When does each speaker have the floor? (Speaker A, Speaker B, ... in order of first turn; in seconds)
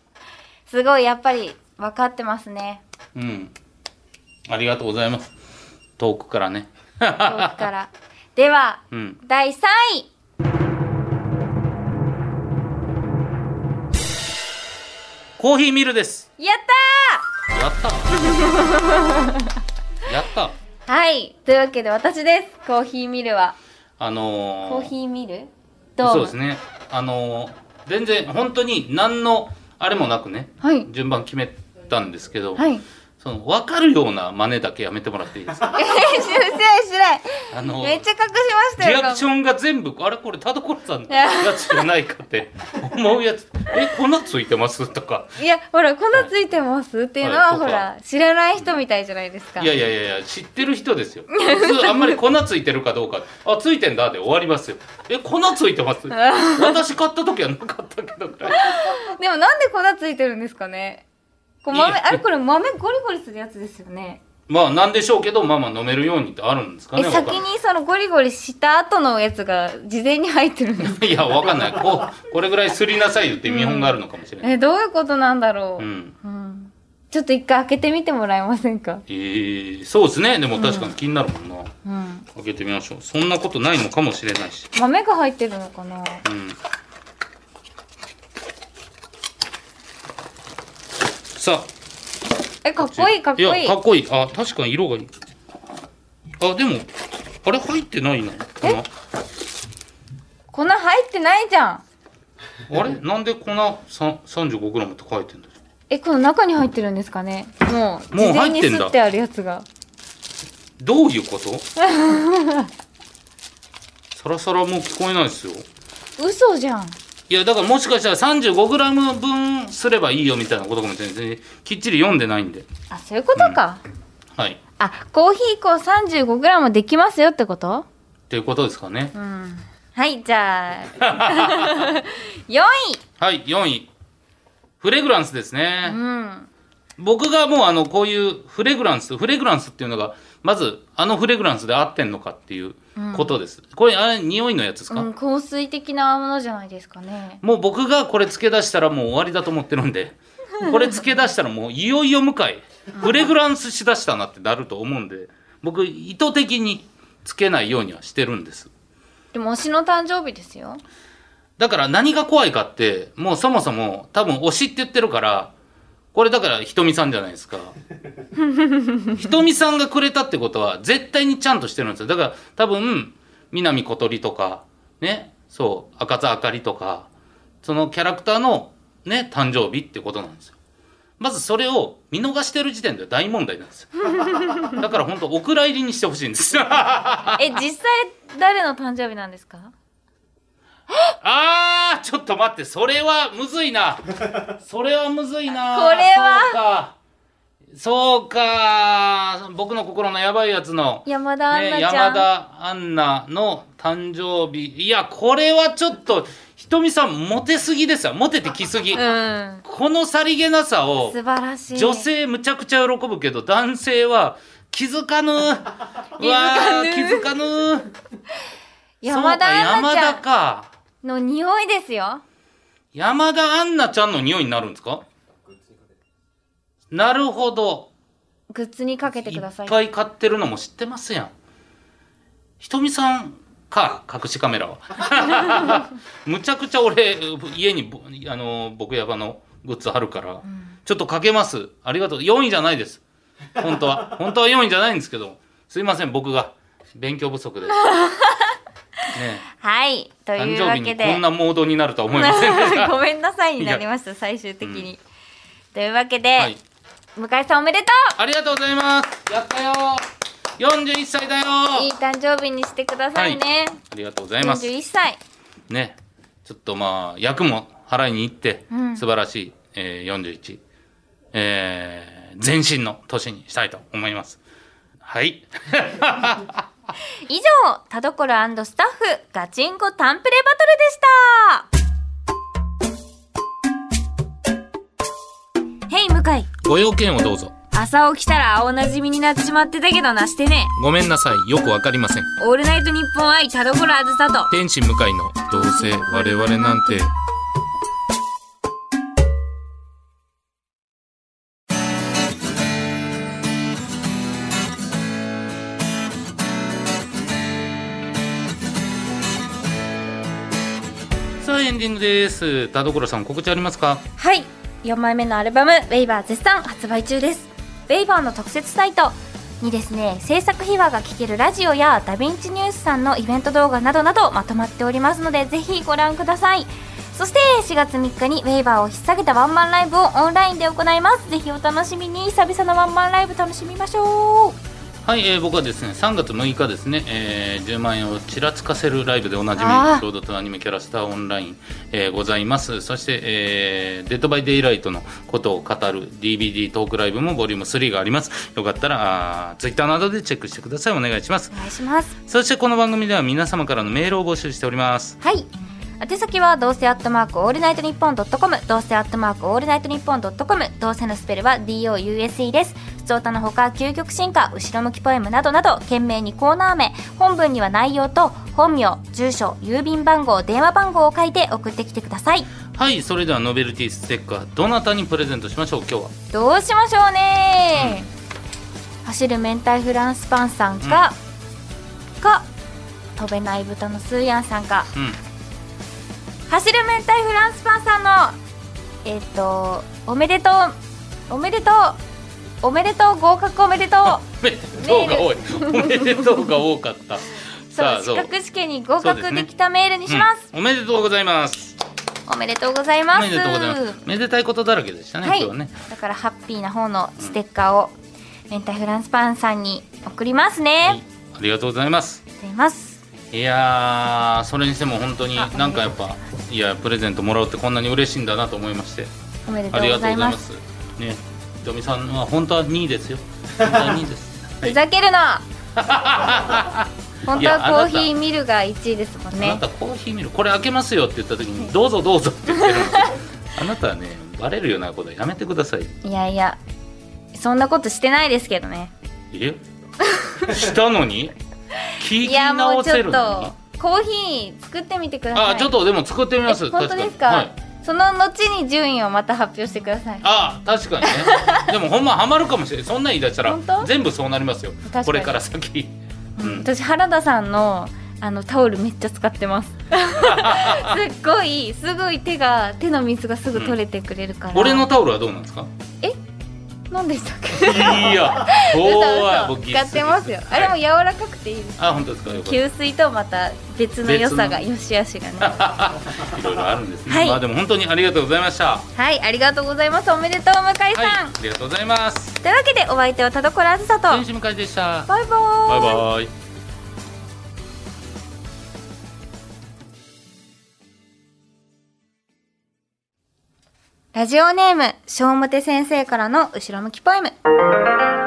Speaker A: 0.7-2.8, 7.2-10.1, 16.4-17.3, 18.1-19.5, 20.9-23.6, 24.6-26.3, 30.6-30.9, 32.6-32.8, 35.7-39.2, 41.1-41.8, 45.4-49.7, 51.3-52.2, 56.1-56.8, 58.5-61.0, 61.6-64.2, 67.0-71.2, 73.5-79.0, 80.6-80.9, 81.8-82.3, 84.8-86.2, 92.6-93.8, 100.5-101.8, 105.9-109.7, 111.8-112.7, 116.2-117.0, 122.9-123.8, 124.8-127.9, 129.1-133.0, 135.8-136.5, 143.0-143.4, 144.9-147.4, 150.6-150.8, 152.9-153.3, 159.3-160.8, 168.4-169.2, 184.1-184.8, 187.3-189.7, 195.5-196.6, 201.1-202.3, 208.9-209.6, 211.0-212.1, 216.2-217.3, 219.0-220.2, 221.0-222.2, 228.5-229.8, 240.5-240.8, 247.7-248.6, 249.5-251.2, 252.1-255.0, 255.7-256.5, 257.2-258.2, 261.7-263.8, 264.4-265.2, 268.7-269.1, 277.3-281.7, 285.9-286.6, 287.7-290.8, 292.4-294.5, 295.5-297.0, 314.2-334.6, 339.6-340.0, 351.5-352.1, 355.2-355.5, 356.0-372.5, 376.3-378.1, 379.1-381.1, 382.2-382.5, 383.2-384.9, 386.5-388.4, 389.1-390.8, 391.3-392.0, 392.6-394.2, 394.8-396.2, 397.7-400.5, 402.3-404.0, 405.2-407.9, 408.5-411.0, 412.4-413.0, 415.4-415.9, 419.5-420.4, 424.6-425.5, 427.2-429.6, 432.5-433.2, 436.0-436.6, 437.3-438.9, 440.0-440.6, 441.9-445.7, 446.5-450.3, 451.0-451.7, 453.4-453.9, 454.8-455.4, 456.4-464.9, 466.9-475.8, 477.1-477.4, 478.9-481.4, 482.4-484.2, 485.1-486.0, 494.1-497.4
Speaker B: 3.1-3.5, 4.5-5.3, 6.0-7.7, 8.9-9.2, 15.4-16.3, 17.5-18.5, 20.1-20.6, 24.0-24.9, 26.0-32.6, 33.2-35.9, 37.5-38.1, 38.8-45.4, 47.2-47.9, 49.6-59.0, 61.7-62.2, 64.5-67.4, 70.8-74.5, 75.8-76.2, 79.1-81.7, 82.3-84.7, 86.2-86.6, 91.3-91.7, 92.8-95.1, 96.4-96.9, 97.4-98.9, 102.7-105.5, 108.1-109.0, 110.8-111.7, 114.1-115.7, 117.3-122.7, 124.3-124.6, 128.3-129.1, 131.0-131.9, 133.2-133.9, 134.8-136.0, 137.0-145.1, 147.4-158.7, 161.6-165.5, 166.1-167.7, 169.2-177.1, 177.6-180.6, 181.2-187.6, 191.2-197.0, 197.7-209.1, 209.6-211.2, 211.7-217.9, 219.1-220.7, 222.9-225.1, 226.9-227.9, 229.1-231.3, 232.6-243.0, 243.6-247.8, 249.1-249.5, 250.4-253.0, 253.6-253.8, 254.6-254.9, 258.2-261.9, 263.1-264.7, 265.7-270.6, 271.3-274.4, 275.0-276.6, 286.6-287.6, 290.8-292.3, 294.5-297.1, 311.4-314.0, 335.0-351.5, 352.3-355.2, 372.7-376.1, 377.7-378.1, 384.9-385.2, 394.1-398.3, 399.0-399.5, 400.1-401.8, 403.1-405.8, 410.8-412.2, 413.3-419.1, 419.7-424.8, 425.8-428.1, 429.4-435.9, 439.3-439.6, 440.4-441.4, 442.0-443.5, 445.3-447.5, 450.2-456.7, 460.2-461.0, 464.5-465.7, 467.6-470.8, 471.8-472.6, 474.0-474.7, 475.4-478.9, 480.9-482.4, 484.1-485.1, 485.7-486.3